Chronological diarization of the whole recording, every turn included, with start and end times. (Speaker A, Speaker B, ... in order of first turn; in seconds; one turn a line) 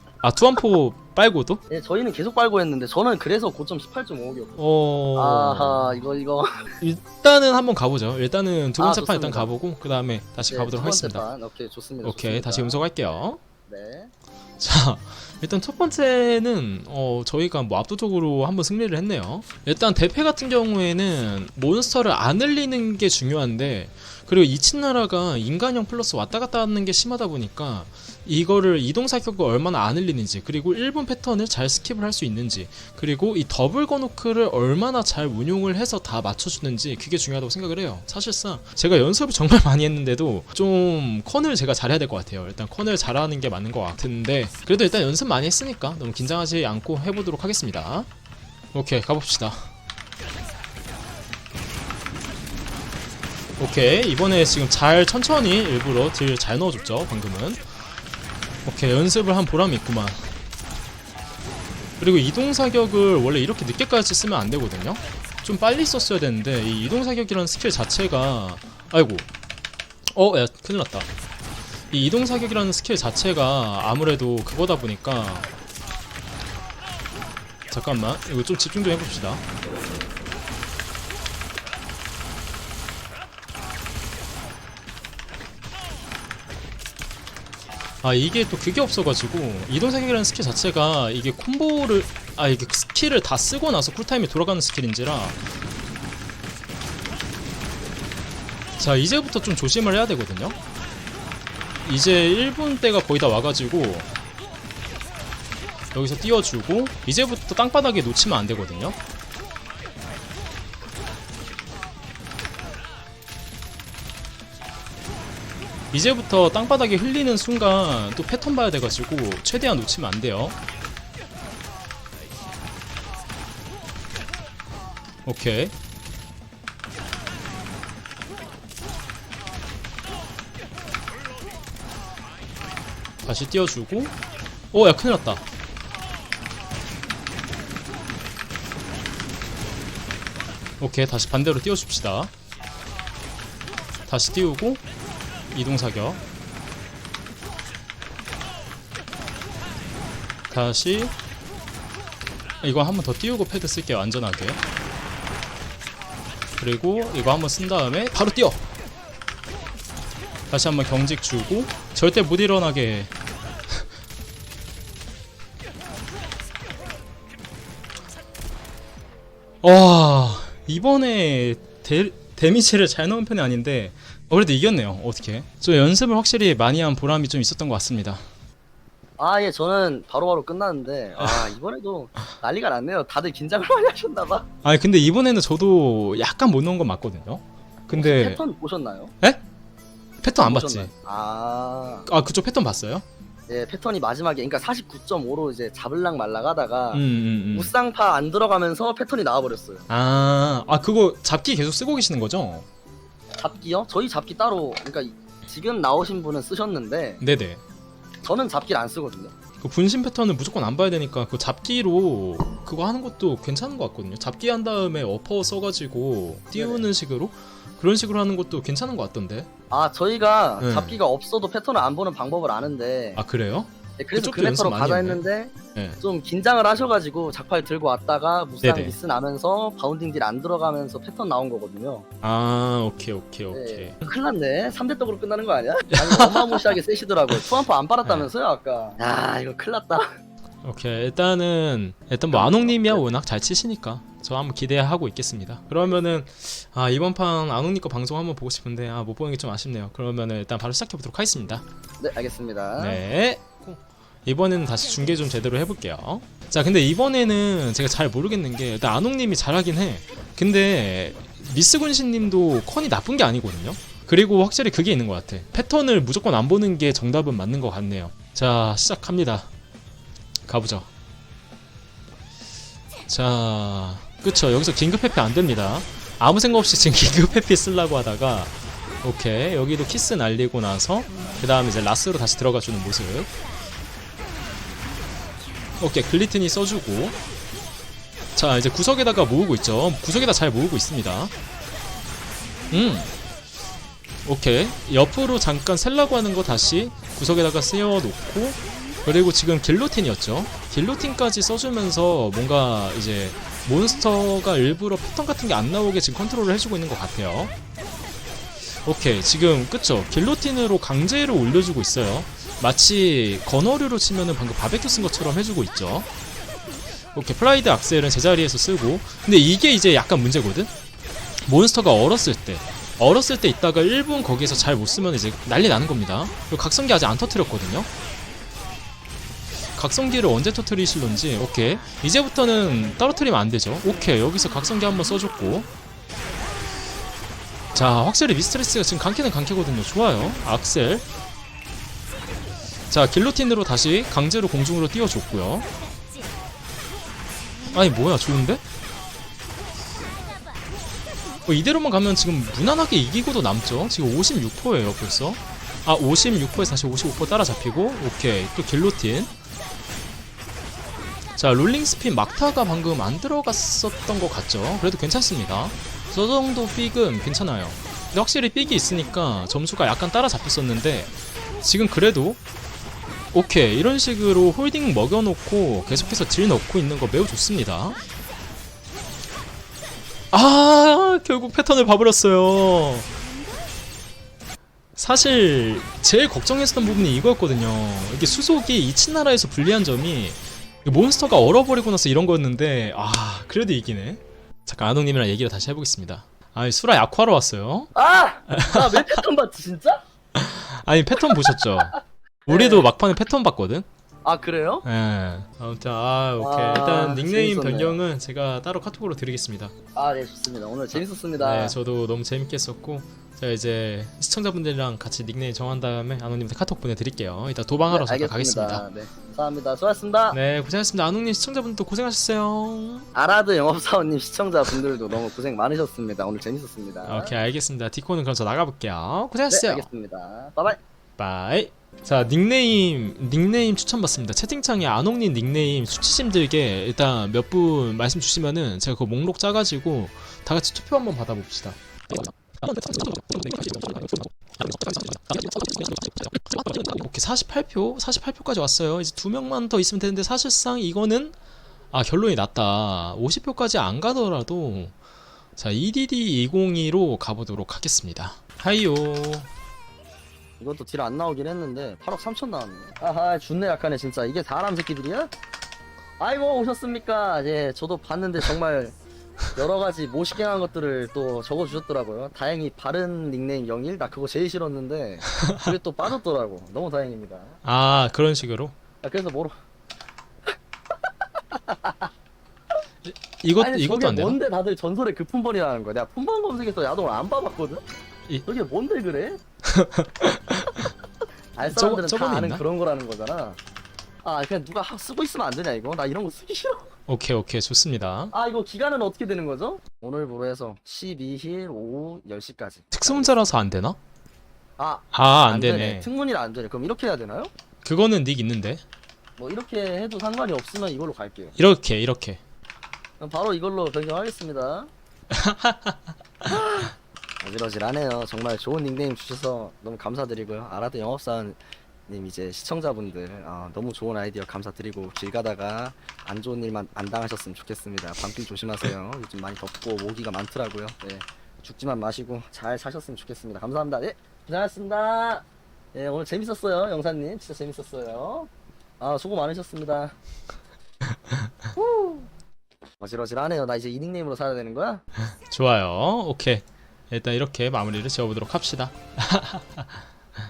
Speaker A: 0.2-1.6
Speaker B: 1.7-4.6
Speaker A: 4.6-6.0
Speaker B: 5.1-6.7
Speaker A: 6.8-11.2
Speaker B: 8.8-9.5
Speaker B: 10.5-13.0
Speaker A: 12.0-13.4
Speaker B: 13.7-14.1
Speaker A: 14.6-48.1
Speaker A: 48.7-49.7
Speaker A: 53.6-57.7
Speaker A: 58.6-60.3
Speaker A: 62.0-69.3
Speaker A: 70.1-71.1
Speaker A: 71.9-75.5
Speaker A: 77.7-79.4
Speaker A: 88.0-95.4
Speaker A: 98.8-100.6
Speaker A: 101.8-104.1
Speaker A: 105.9-109.0
Speaker A: 115.9-120.6
Speaker A: 125.2-125.7
Speaker A: 133.2-134.1
Speaker A: 134.7-135.4
Speaker A: 140.8-142.3
Speaker A: 144.1-144.8
Speaker A: 145.5-146.2
Speaker A: 150.5-151.1
Speaker A: 152.6-154.6
Speaker A: 156.6-158.7
Speaker A: 160.5-163.1
Speaker A: 169.6-178.2
Speaker B: 179.2-184.5
Speaker A: 181.2-181.5
Speaker A: 184.6-188.4
Speaker B: 187.9-189.1
Speaker A: 190.2-190.9
Speaker B: 190.4-192.1
Speaker A: 192.1-193.0
Speaker B: 193.5-197.0
Speaker A: 196.9-197.7
Speaker B: 197.5-199.9
Speaker A: 199.9-202.7
Speaker B: 203.4-207.2
Speaker A: 207.2-207.6
Speaker B: 208.2-209.3
Speaker A: 209.6-219.5
Speaker B: 216.5-216.8
Speaker B: 219.7-223.2
Speaker A: 220.6-221.0
Speaker A: 223.2-226.0
Speaker B: 224.0-232.0
Speaker A: 228.6-228.9
Speaker A: 232.2-234.1
Speaker B: 233.5-240.1
Speaker A: 235.9-236.7
Speaker A: 238.0-238.3
Speaker A: 240.6-251.6
Speaker B: 242.3-243.0
Speaker B: 252.0-253.0
Speaker A: 252.8-269.5
Speaker A: 270.5-270.9
Speaker A: 273.1-283.3
Speaker A: 285.8-287.2
Speaker A: 288.3-291.3
Speaker A: 292.7-293.1
Speaker A: 294.2-307.5
Speaker A: 308.8-316.1
Speaker A: 317.1-320.7
Speaker A: 321.4-327.9
Speaker A: 329.8-335.7
Speaker A: 337.7-341.0
Speaker A: 342.9-345.7
Speaker A: 347.7-348.6
Speaker A: 351.5-359.3
Speaker A: 361.4-372.4
Speaker A: 373.3-378.0
Speaker A: 380.3-383.1
Speaker A: 384.9-397.9
Speaker B: 397.9-400.0
Speaker A: 398.5-399.2
Speaker A: 400.4-403.9
Speaker B: 401.3-401.7
Speaker B: 402.5-402.9
Speaker B: 404.2-404.8
Speaker A: 404.8-409.7
Speaker B: 406.4-408.0
Speaker B: 409.9-411.8
Speaker A: 410.9-418.8
Speaker B: 417.9-420.4
Speaker A: 420.3-423.1
Speaker B: 423.1-427.4
Speaker A: 427.0-429.9
Speaker B: 429.5-430.8
Speaker A: 431.2-451.3
Speaker A: 451.9-454.9
Speaker A: 455.6-459.5
Speaker B: 460.6-465.3
Speaker B: 466.2-468.9
Speaker B: 469.5-477.6
Speaker A: 477.6-478.7
Speaker B: 479.0-479.5
Speaker B: 481.5-482.1
Speaker A: 483.0-484.4
Speaker B: 483.6-487.8
Speaker B: 488.4-489.4
Speaker A: 489.6-490.9
Speaker B: 491.6-493.6
Speaker A: 491.7-492.6
Speaker B: 494.2-496.9
Speaker A: 497.1-498.3
Speaker B: 498.3-503.4
Speaker A: 502.9-504.0
Speaker B: 504.8-507.5
Speaker A: 505.1-506.1
Speaker A: 507.8-508.8
Speaker B: 509.4-511.5
Speaker A: 511.6-512.4
Speaker B: 513.2-514.9
Speaker A: 515.3-516.0
Speaker B: 516.4-540.1
Speaker B: 541.8-542.3
Speaker B: 543.0-545.0
Speaker A: 545.3-550.0